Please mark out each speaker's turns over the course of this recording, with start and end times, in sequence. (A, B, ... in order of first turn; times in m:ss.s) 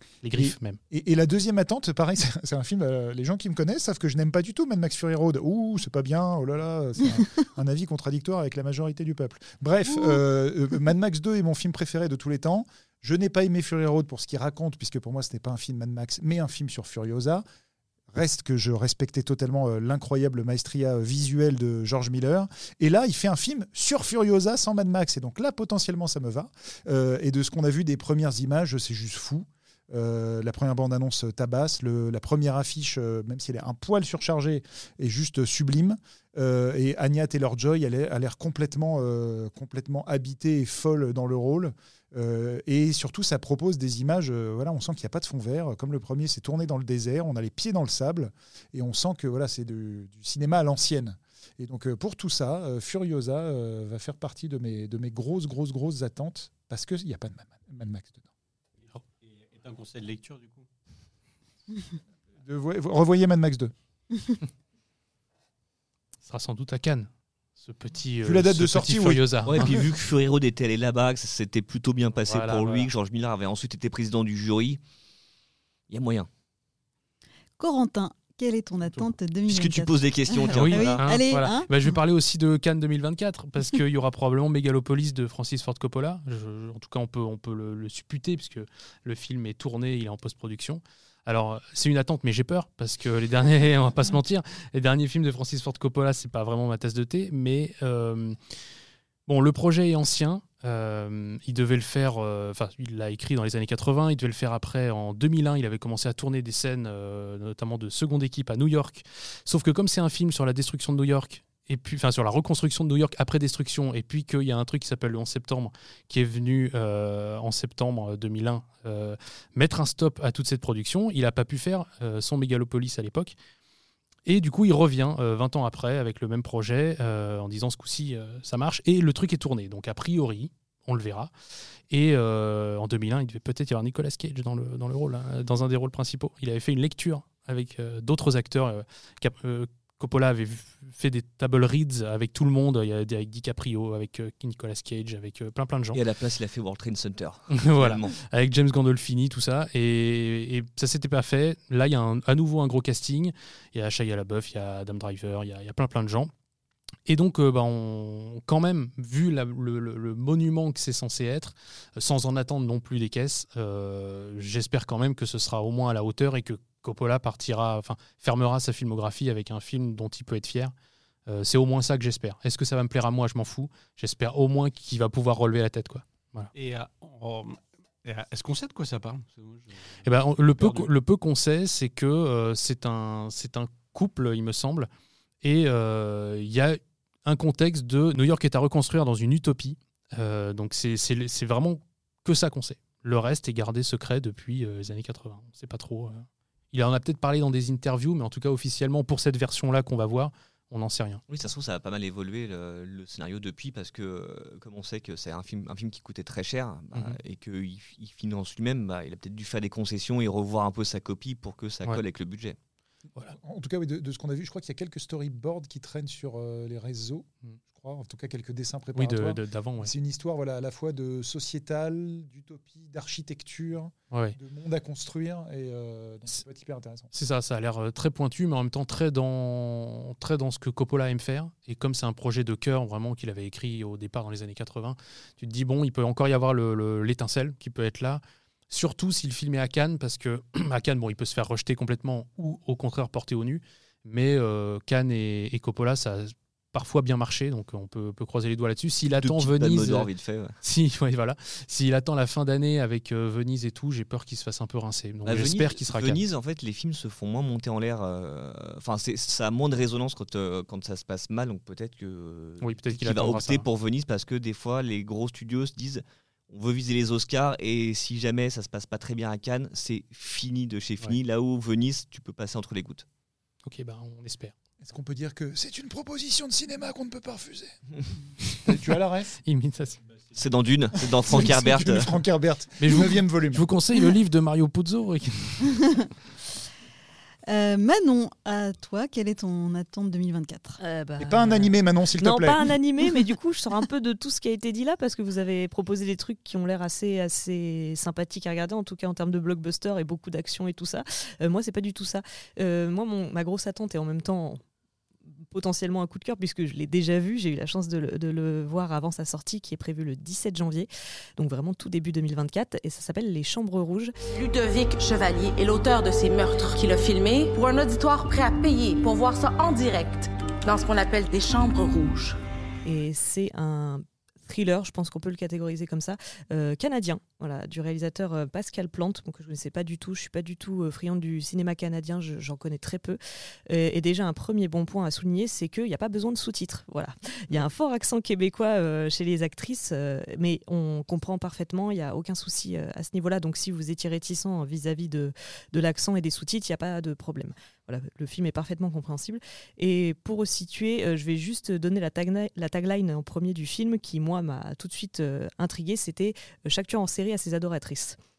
0:00.2-0:00.8 A
0:00.3-0:17.4 B
0:18.1-0:58.3 B
0:58.8-1:00.7 C
1:02.4-1:03.7 B
1:06.2-1:09.8 A
1:08.2-1:09.7 B
1:09.4-1:14.8 D
1:12.2-1:12.9 A
1:15.9-1:16.3 D
1:17.6-1:21.9 E
1:19.5-1:21.0 D
1:20.5-1:38.4 A
1:39.3-2:03.4 A
2:04.2-2:11.3 A
2:11.9-2:26.0 A
2:25.9-2:28.1 D
2:27.5-2:36.3 A
2:37.1-2:50.7 A
2:51.3-2:56.5 A
2:56.5-3:00.9 C
3:00.0-3:04.9 A
3:05.4-3:21.2 A
3:21.3-3:32.6 D
3:33.3-3:47.1 B
3:38.9-3:39.9 A
3:47.1-4:10.1 A
4:09.1-4:10.5 D
4:10.6-4:16.2 A
4:15.2-4:33.0 D
4:22.6-4:23.6 A
4:33.6-4:34.5 A
4:34.8-4:37.8 B
4:38.6-4:39.4 B
4:39.4-4:40.0 A
4:40.3-4:42.1 D
4:41.1-4:43.6 B
4:42.8-4:45.8 A
4:47.5-4:50.8 E
4:50.8-5:04.6 F
4:51.2-4:52.7 B
5:05.5-5:14.1 F
5:14.3-5:22.4 G
5:22.8-5:58.2 F